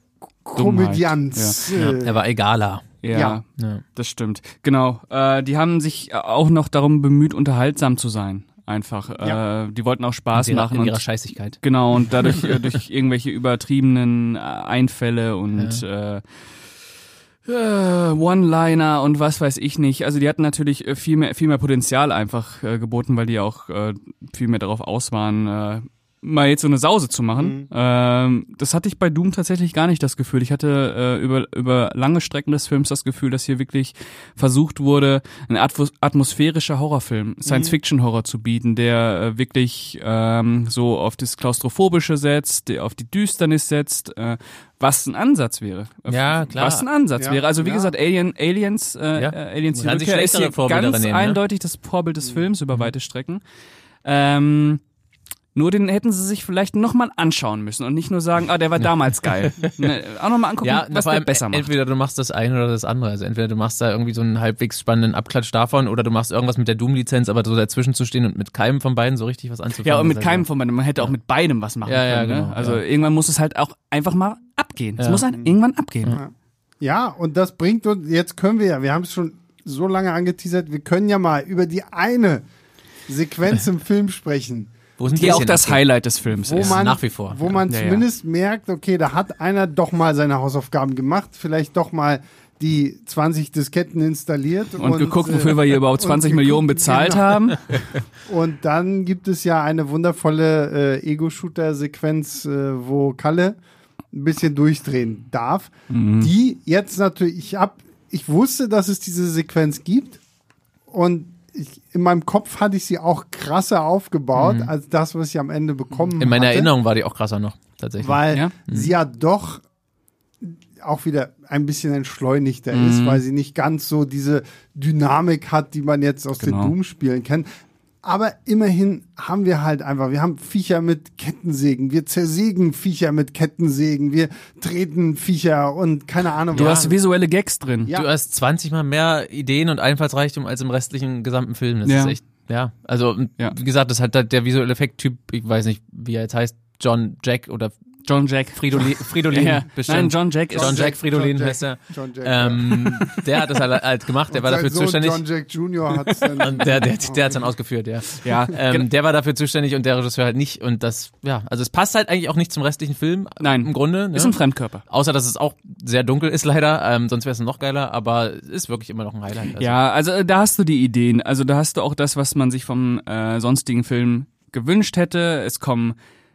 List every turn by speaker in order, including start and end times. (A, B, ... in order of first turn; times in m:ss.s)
0:00.4-0:02.2 A
0:00.6-0:01.6 B
0:01.7-0:03.0 C
0:03.0-0:03.4 B
0:03.1-0:03.4 A
0:03.6-0:03.8 C
0:04.0-0:11.0 B
0:10.3-0:11.6 C
0:11.6-0:16.3 B
0:12.2-0:12.5 C
0:15.6-0:15.8 C
0:17.4-0:53.4 B
0:27.4-0:27.7 A
0:37.4-0:37.8 A
0:46.1-0:46.8 C
0:47.2-0:47.9 A
0:49.2-0:51.4 C
0:54.0-0:54.8 B
0:55.5-1:01.7 B
0:58.8-0:59.9 C
1:00.6-1:10.4 C
1:09.8-1:16.2 B
1:11.8-1:12.8 C
1:15.0-1:15.2 C
1:16.1-1:22.4 A
1:23.1-1:25.4 A
1:25.0-1:25.8 C
1:25.1-1:26.8 B
1:26.4-1:43.6 A
1:26.5-1:27.6 C
1:27.7-1:28.0 B
1:34.8-1:37.6 B
1:44.1-1:50.2 A
1:45.9-1:46.3 B
1:50.9-1:56.7 A
1:54.3-1:54.7 C
1:56.2-1:58.9 C
1:58.0-1:59.6 A
2:00.4-2:07.5 A
2:02.7-2:03.2 B
2:06.4-2:06.7 B
2:08.0-2:17.0 A
2:16.5-2:16.9 C
2:16.5-2:17.9 B
2:17.8-2:18.1 A
2:17.9-2:27.8 C
2:21.8-2:22.2 B
2:28.0-2:30.9 B
2:28.5-2:35.2 C
2:30.5-2:33.2 A
2:34.3-2:37.4 A
2:36.4-2:49.8 C
2:38.2-2:38.9 B
2:43.4-2:44.8 B
2:49.6-2:56.0 B